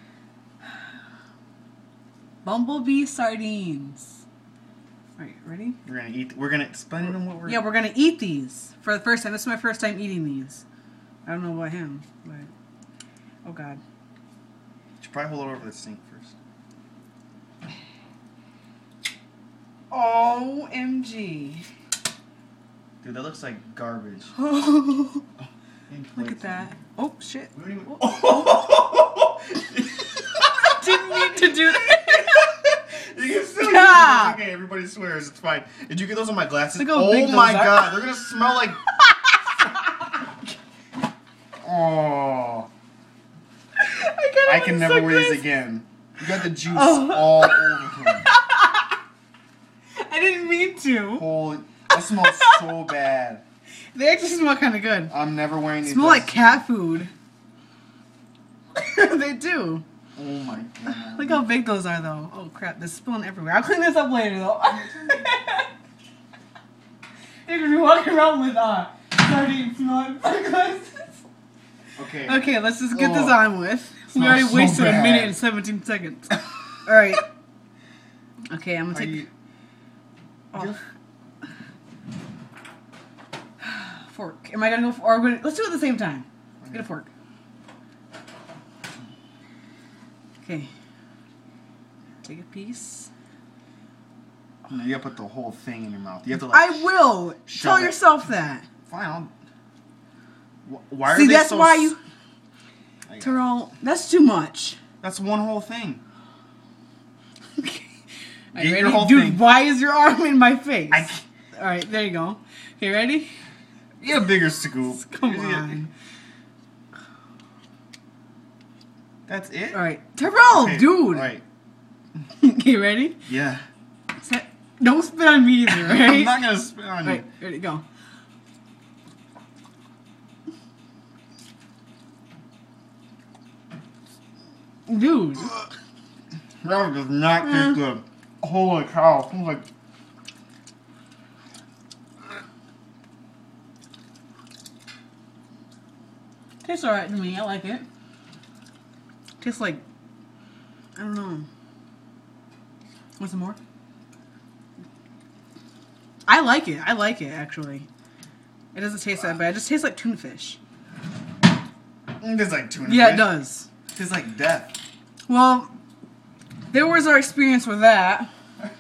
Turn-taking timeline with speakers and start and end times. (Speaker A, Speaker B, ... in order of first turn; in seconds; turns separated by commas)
Speaker A: 2.4-4.2, Speaker A: 5.2-5.8, Speaker B: 5.8-7.7, Speaker A: 7.1-10.6, Speaker A: 11.2-12.5, Speaker A: 13.4-13.8, Speaker B: 15.0-16.3, Speaker A: 19.9-21.7, Speaker B: 23.0-24.3, Speaker A: 24.4-25.2, Speaker B: 25.9-26.7, Speaker A: 26.1-28.6, Speaker B: 27.5-38.8, Speaker A: 30.7-32.2, Speaker A: 33.6-34.4, Speaker A: 36.7-37.9, Speaker A: 39.1-39.7, Speaker B: 41.6-42.7, Speaker A: 43.8-45.4, Speaker B: 44.4-48.3, Speaker A: 46.6-49.0, Speaker A: 50.0-51.3, Speaker B: 51.2-53.4, Speaker A: 52.0-52.8, Speaker A: 53.9-55.1, Speaker B: 55.1-56.6, Speaker A: 55.8-57.1, Speaker A: 58.7-59.8, Speaker B: 60.2-61.5, Speaker A: 61.1-65.7, Speaker B: 64.7-65.3, Speaker A: 67.5-71.2, Speaker B: 72.0-73.5, Speaker A: 72.2-77.3, Speaker B: 74.1-75.4, Speaker A: 78.5-79.3, Speaker B: 78.9-79.3, Speaker A: 80.5-80.8, Speaker A: 83.6-87.1, Speaker B: 86.6-86.9, Speaker A: 90.4-90.7, Speaker A: 92.2-93.1, Speaker B: 94.7-96.9, Speaker A: 96.4-98.7, Speaker B: 97.5-98.0, Speaker B: 98.9-99.3, Speaker B: 100.7-102.0, Speaker A: 101.1-102.0, Speaker B: 103.1-103.3, Speaker A: 103.2-104.8, Speaker B: 105.0-106.0, Speaker A: 107.6-107.9, Speaker A: 108.5-113.3, Speaker B: 108.5-109.5, Speaker B: 110.9-111.2, Speaker B: 114.0-115.9, Speaker A: 115.0-115.9, Speaker B: 119.3-121.4, Speaker A: 119.7-121.4, Speaker A: 122.4-123.2, Speaker B: 123.3-123.7, Speaker A: 124.2-126.4, Speaker B: 125.7-127.3, Speaker A: 127.0-127.8, Speaker A: 134.9-135.7, Speaker B: 136.6-139.7, Speaker A: 146.6-147.8, Speaker A: 149.4-149.8, Speaker A: 150.9-151.5, Speaker A: 153.2-153.6, Speaker A: 156.2-157.9, Speaker A: 158.7-160.6, Speaker B: 162.2-164.8, Speaker A: 162.8-163.7, Speaker A: 165.3-165.7, Speaker A: 166.7-168.3